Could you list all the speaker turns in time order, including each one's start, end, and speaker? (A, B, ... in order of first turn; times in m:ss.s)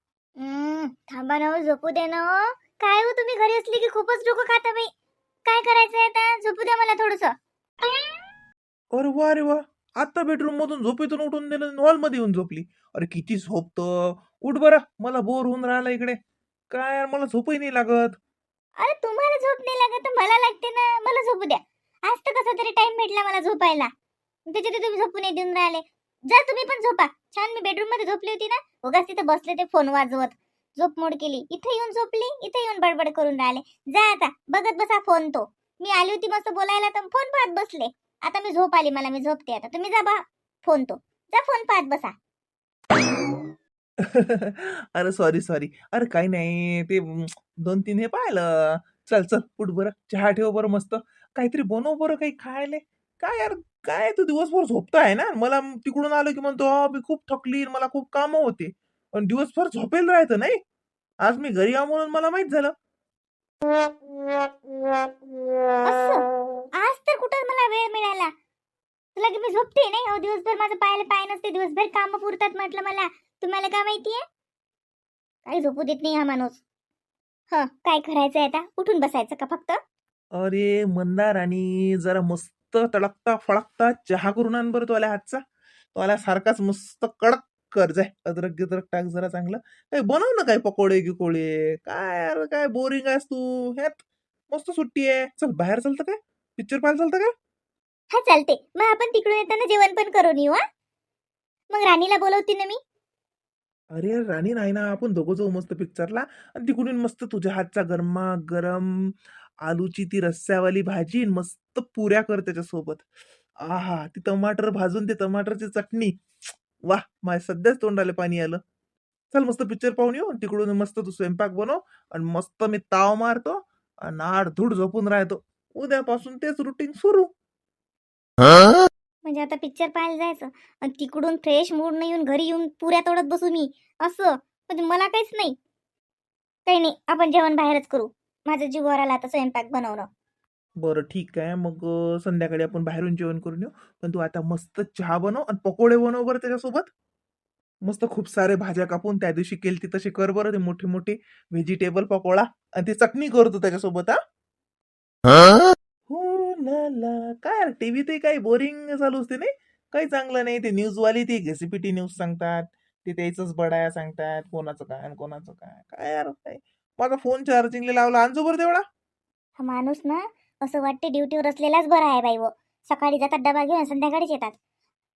0:00.4-0:04.9 A
0:05.4-0:07.4 A
0:08.9-0:16.2 B
0:16.7-0:18.2 B
0:18.8-0:23.9 A
0:24.5-0:42.1 A
0:44.0-1:00.6 B
1:01.2-1:02.7 B
1:05.8-1:06.2 A
1:06.8-1:08.3 A
1:09.2-1:14.2 A
1:15.5-1:16.6 A
1:17.5-1:19.8 A
1:20.3-1:25.4 B
1:25.9-1:37.3 B
1:38.1-1:40.6 A
1:41.7-1:42.8 A
1:43.9-1:49.1 B
1:49.6-1:53.0 B
1:53.6-1:56.1 B
1:56.9-1:58.6 B
1:59.3-2:07.3 B
2:09.2-2:15.6 A
2:16.7-2:20.1 A
2:20.8-2:26.9 B
2:27.8-2:34.2 B
2:36.1-2:48.8 B
2:49.6-2:54.6 A